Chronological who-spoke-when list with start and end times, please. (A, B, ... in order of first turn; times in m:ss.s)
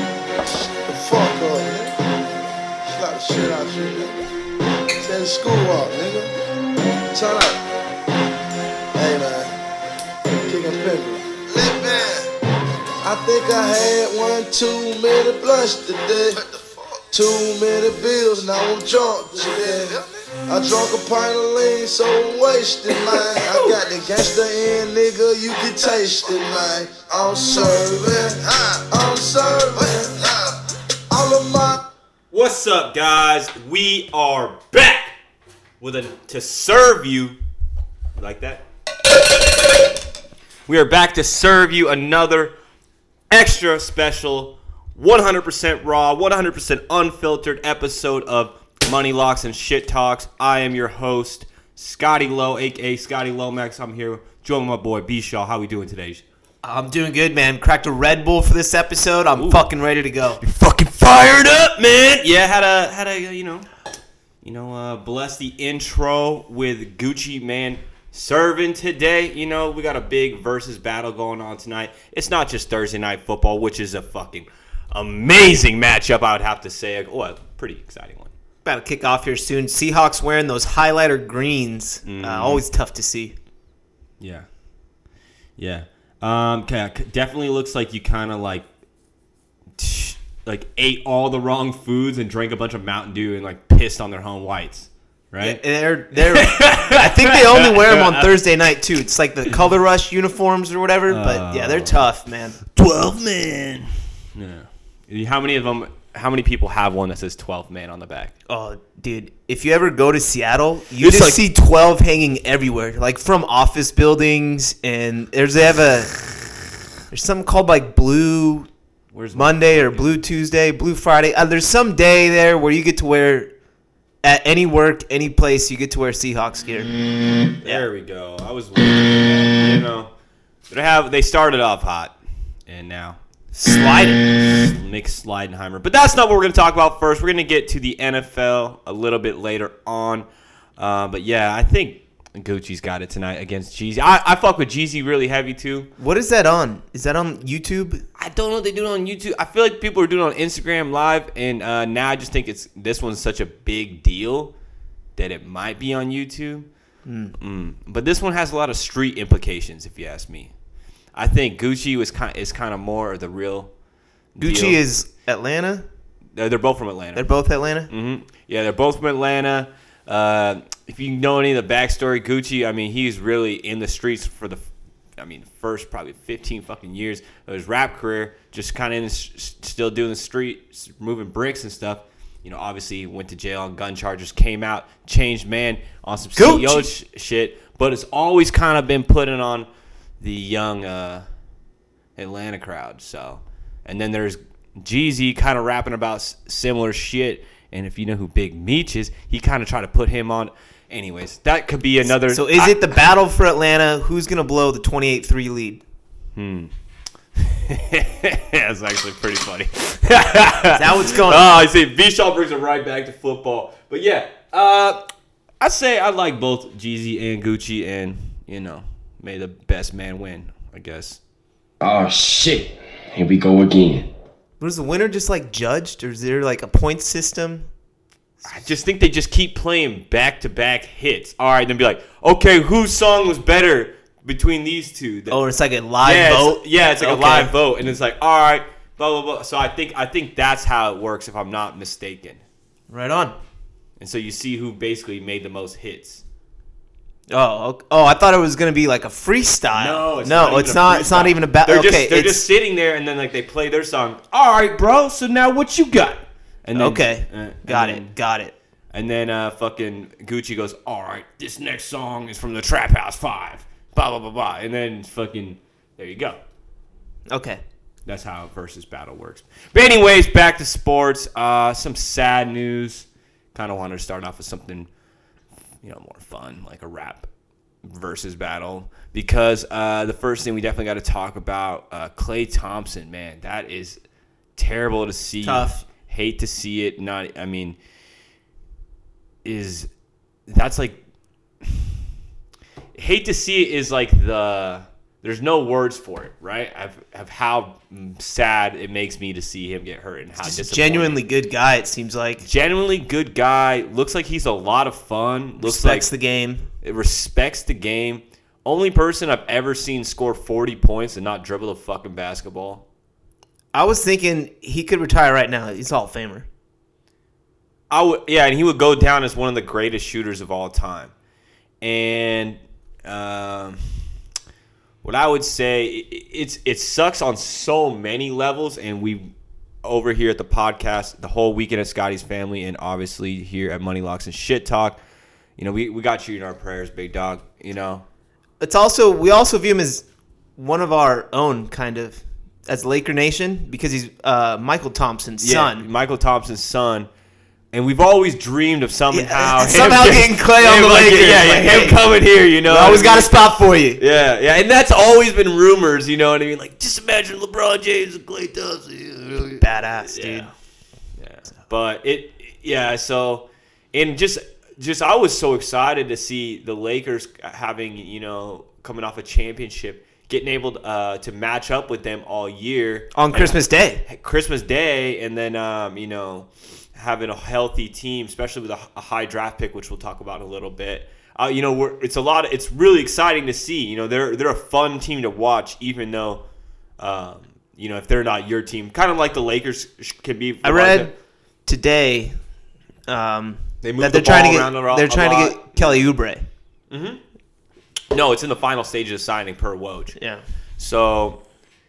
0:00.9-0:01.9 A
0:02.8-0:04.2 A
0:05.0-0:06.3 A
0:07.1-0:07.6 A
0:08.9-0:09.5 A
0:10.4-0:12.3 A
0:13.0-0:16.5 A
0:17.1-0:30.5 A
0:31.1-0:31.8 A
0:32.3-0:35.2 B
0:35.8-0:37.4 B
0:38.2-0:38.6 B
0:40.7-0:42.6 B
0:43.3-0:56.2 B
0:56.6-1:00.4 C
0:59.4-0:59.7 B
1:00.4-1:03.7 B
1:04.4-1:18.3 B
1:18.6-1:23.4 C
1:22.1-1:22.6 B
1:24.2-1:24.5 B
1:25.6-1:28.7 B
1:29.8-1:35.6 B
1:35.4-1:42.6 C
1:36.1-1:38.3 B
1:41.1-1:42.0 B
1:42.6-1:48.3 B
1:48.5-1:56.2 C
1:51.0-1:51.4 B
1:57.1-1:58.7 C
1:59.1-2:00.2 B
1:59.3-2:03.5 C
2:04.2-2:06.9 C
2:07.6-2:10.1 B
2:10.7-2:13.2 B
2:13.6-2:14.3 C
2:14.4-2:25.9 B
2:26.0-2:28.1 C
2:28.2-2:34.5 B
2:35.2-2:36.7 B
2:37.0-2:37.4 C
2:37.4-2:40.5 B
2:41.1-2:43.7 B
2:44.4-2:44.8 B
2:44.4-2:45.9 C
2:46.3-2:47.3 B
2:47.2-2:47.9 C
2:47.9-3:09.7 B
3:06.4-3:06.9 C
3:10.2-3:11.2 B
3:12.2-3:23.0 B
3:22.3-3:25.8 C
3:26.4-3:26.7 B
3:27.4-3:41.2 B
3:30.7-3:31.6 C
3:41.8-3:44.1 D
3:44.6-3:47.7 C
3:48.4-3:55.4 B
3:55.3-3:57.6 C
3:56.0-4:02.4 B
4:02.9-4:03.4 C
4:04.0-4:06.2 B
4:07.3-4:12.5 C
4:09.7-4:18.1 B
4:16.8-4:18.5 C
4:18.9-4:26.4 B
4:27.3-4:27.6 C
4:28.1-4:34.9 B
4:35.8-4:37.3 B
4:37.8-4:44.0 B
4:44.6-4:47.8 B
4:45.4-4:45.8 C
4:49.4-4:49.9 B
4:50.5-4:51.0 B
4:51.6-4:51.9 B
4:53.0-5:01.2 B
5:00.4-5:02.5 C
5:02.4-5:06.1 B
5:05.6-5:06.7 C
5:06.8-5:12.8 B
5:13.7-5:16.5 C
5:17.9-5:21.1 B
5:21.8-5:24.1 B
5:25.0-5:29.3 B
5:29.8-5:35.0 B
5:35.6-5:38.0 B
5:38.6-5:40.0 C
5:40.6-5:45.9 C
5:45.4-5:47.1 B
5:47.7-6:00.5 B
5:49.1-5:52.0 C
5:52.6-5:54.0 C
5:59.6-6:00.5 C
6:01.2-6:26.4 B
6:13.2-6:14.0 C
6:27.0-6:31.1 B
6:30.6-6:31.1 C
6:31.7-6:32.4 C
6:33.1-6:36.5 C
6:33.8-6:36.0 B
6:36.9-6:37.2 B
6:38.1-6:40.2 B
6:40.2-6:40.4 C
6:40.8-6:41.4 B